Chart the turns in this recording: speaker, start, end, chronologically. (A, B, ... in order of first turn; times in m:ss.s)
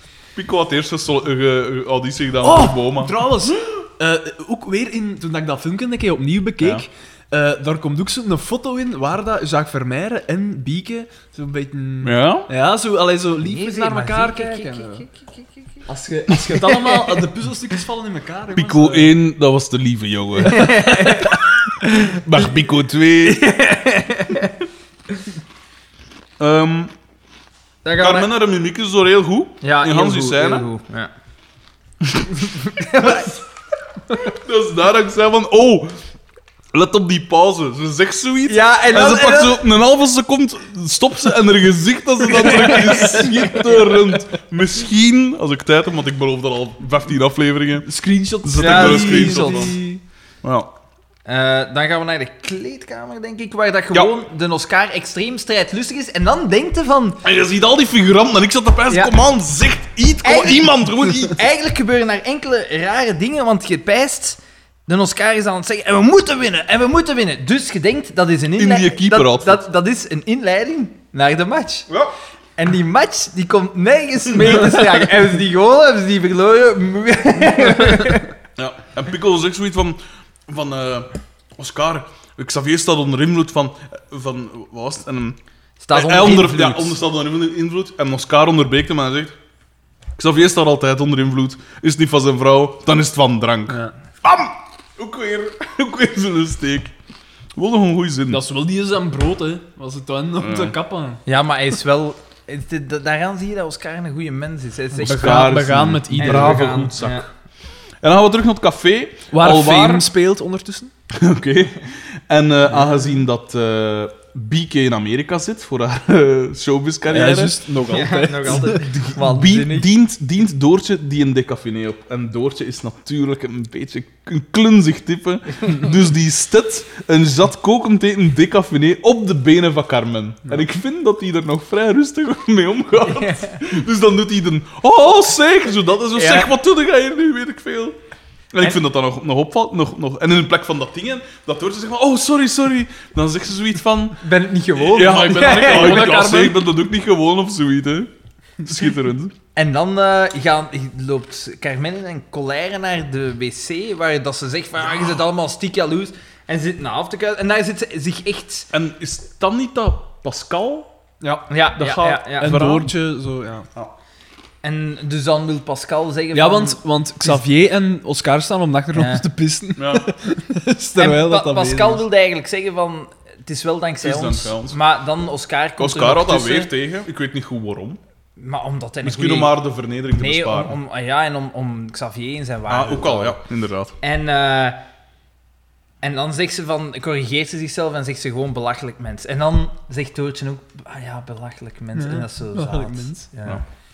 0:00.4-0:03.2 A
0:02.4-0:15.0 B
0:12.0-0:12.5 A
0:13.4-0:15.9 C
0:15.9-0:19.2 B
0:16.5-0:17.3 A
0:18.6-0:21.4 A
0:20.5-0:21.4 C
0:20.5-0:21.3 B
0:22.0-0:22.5 C
0:22.0-0:23.5 A
0:23.2-0:24.5 C
0:26.4-0:26.9 A
0:27.8-0:28.3 C
0:28.0-0:30.7 A
0:29.6-0:31.1 C
0:32.0-0:32.3 A
0:32.4-0:33.4 C
0:34.2-0:36.0 A
0:36.7-0:47.9 A
0:38.5-0:39.6 C
0:42.4-0:44.1 B
0:42.5-0:43.0 C
0:47.9-0:50.0 B
0:48.4-0:49.8 A
0:48.6-0:49.8 C
0:50.4-0:50.7 A
0:51.3-0:57.2 C
0:57.2-1:01.4 A
1:00.2-1:11.9 C
1:08.6-1:09.6 A
1:12.6-1:18.3 C
1:14.3-1:14.8 A
1:18.6-1:25.4 A
1:25.8-1:27.0 C
1:25.9-1:29.4 A
1:30.2-1:36.9 A
1:33.7-1:33.9 B
1:37.6-1:38.4 A
1:38.3-1:41.2 B
1:40.4-1:40.8 A
1:41.3-1:45.5 C
1:45.0-1:46.9 B
1:45.0-1:47.3 A
1:46.2-1:47.2 C
1:48.0-1:50.1 A
1:49.3-1:50.9 B
1:51.1-1:58.1 A
1:57.1-1:58.9 B
1:57.9-1:59.9 C
1:59.2-2:18.0 A
2:13.0-2:13.6 C
2:16.2-2:16.5 C
2:18.5-2:24.2 A
2:24.2-2:26.1 C
2:24.8-2:29.3 A
2:25.0-2:26.6 B
2:29.6-2:38.7 C
2:38.7-2:40.9 A
2:41.2-2:41.5 B
2:41.5-2:42.6 C
2:41.7-2:42.9 A
2:42.4-2:43.7 B
2:44.6-2:47.4 C
2:46.3-2:52.0 B
2:48.9-2:49.3 C
2:49.8-2:50.1 A
2:51.0-2:56.7 C
2:54.0-2:54.8 A
2:55.8-2:58.0 A
2:58.4-2:59.6 C
2:59.0-3:00.8 A
3:00.1-3:03.4 C
3:02.7-3:03.9 A
3:04.0-3:04.8 C
3:06.0-3:13.6 C
3:12.0-3:13.3 B